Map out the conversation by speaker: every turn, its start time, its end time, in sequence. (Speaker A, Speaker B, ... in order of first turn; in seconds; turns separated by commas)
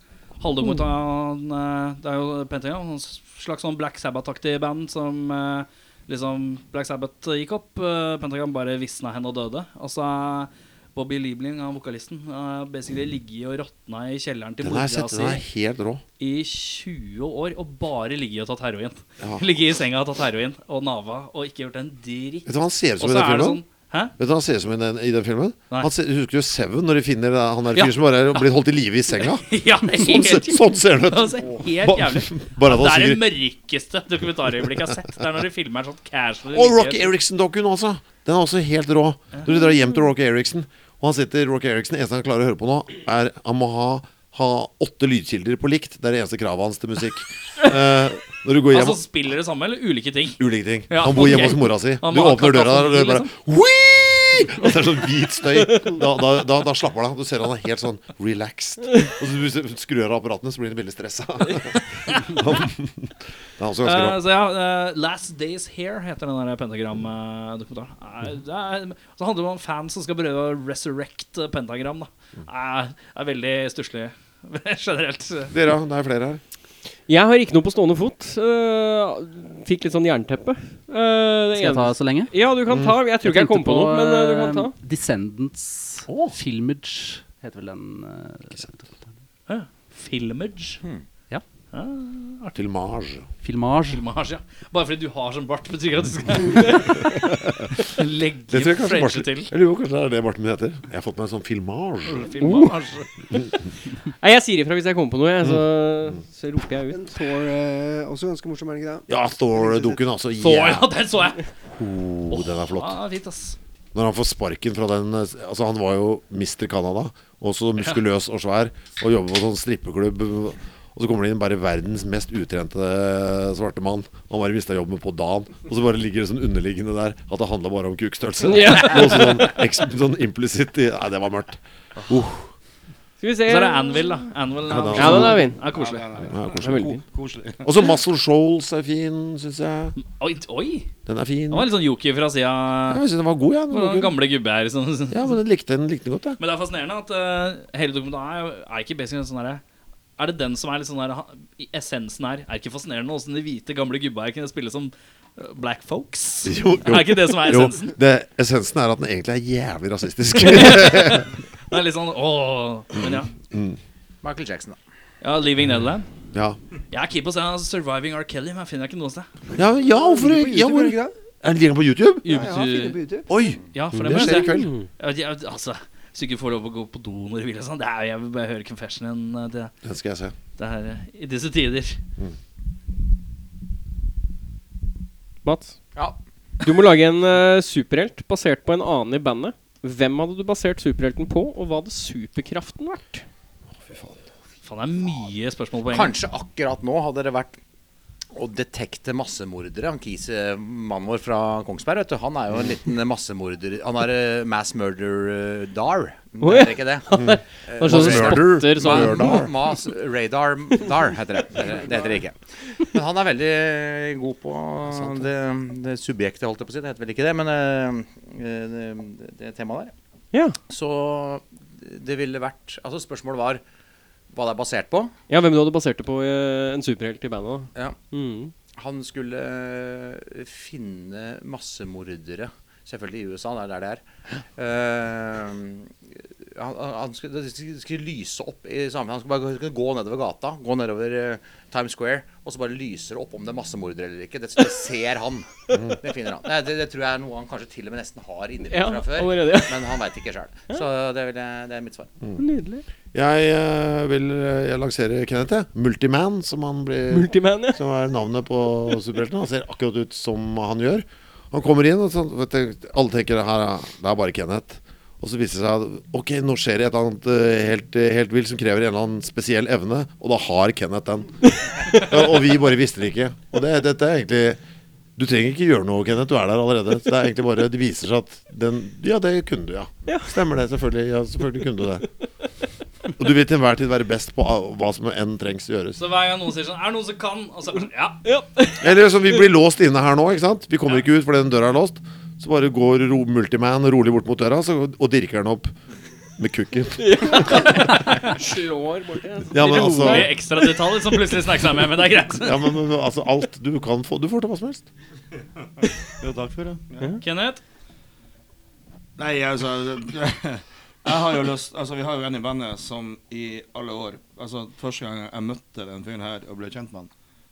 Speaker A: 0.4-15.4, Speaker B: 14.6-16.0, Speaker A: 16.2-24.1, Speaker B: 22.5-23.6, Speaker B: 24.2-33.2, Speaker A: 27.7-28.5, Speaker A: 29.1-37.1, Speaker B: 36.5-49.0, Speaker A: 48.7-53.3, Speaker B: 50.4-64.2, Speaker A: 63.8-75.5, Speaker B: 75.5-76.4, Speaker C: 77.1-84.7, Speaker D: 81.5-82.4, Speaker B: 82.7-83.0, Speaker D: 83.2-89.1, Speaker B: 86.1-86.3, Speaker A: 89.5-90.8, Speaker A: 91.7-92.6, Speaker B: 92.5-93.3, Speaker D: 93.4-94.0, Speaker A: 93.9-97.2, Speaker A: 97.8-99.5, Speaker B: 98.5-102.3, Speaker A: 102.1-103.1, Speaker C: 102.4-102.7, Speaker C: 104.2-107.0, Speaker E: 106.9-110.0, Speaker B: 109.1-110.9, Speaker A: 110.4-111.5, Speaker B: 111.7-113.0, Speaker A: 112.3-113.6, Speaker B: 113.9-132.5, Speaker C: 128.4-129.6, Speaker C: 133.2-134.2, Speaker A: 133.5-136.3, Speaker B: 134.7-135.6, Speaker C: 134.9-135.6, Speaker F: 135.7-137.8, Speaker B: 136.3-137.0, Speaker C: 136.6-137.0, Speaker B: 137.6-139.9, Speaker A: 140.0-140.9, Speaker B: 141.1-141.7, Speaker A: 141.5-143.0, Speaker B: 142.9-144.2, Speaker A: 143.7-145.2, Speaker B: 145.1-146.4, Speaker A: 146.4-149.6, Speaker A: 150.2-158.0, Speaker B: 156.4-161.3, Speaker A: 160.4-163.3, Speaker B: 163.0-163.8, Speaker G: 164.2-164.8, Speaker A: 165.2-166.1, Speaker B: 166.3-166.6, Speaker A: 166.9-169.3, Speaker B: 169.6-172.4, Speaker E: 169.8-171.1, Speaker E: 172.2-173.3, Speaker A: 172.2-173.0, Speaker B: 173.3-174.7, Speaker A: 173.7-179.7, Speaker C: 174.1-174.9, Speaker B: 179.8-180.3, Speaker A: 180.6-182.0, Speaker C: 185.4-185.8, Speaker C: 186.6-193.2, Speaker B: 193.9-194.2, Speaker A: 194.7-196.2, Speaker G: 195.9-197.6, Speaker G: 198.3-219.9, Speaker C: 206.4-209.5, Speaker B: 207.2-209.5, Speaker B: 214.9-215.2, Speaker C: 220.3-220.6, Speaker G: 220.7-223.6, Speaker G: 224.3-225.1, Speaker C: 225.3-228.5, Speaker G: 228.8-234.0, Speaker G: 234.6-245.5, Speaker B: 245.7-246.0, Speaker G: 246.0-252.1, Speaker C: 248.7-250.0, Speaker C: 252.4-252.8, Speaker B: 253.1-274.6, Speaker C: 257.1-257.8, Speaker B: 275.2-282.1, Speaker C: 280.1-280.3, Speaker B: 283.2-286.0, Speaker A: 286.0-288.2, Speaker C: 288.2-288.8, Speaker B: 288.8-295.8, Speaker B: 296.4-298.3, Speaker C: 297.0-300.4, Speaker B: 299.5-300.3, Speaker A: 299.7-302.7, Speaker B: 302.4-304.9, Speaker F: 306.2-307.2, Speaker A: 307.2-307.6, Speaker F: 309.2-317.1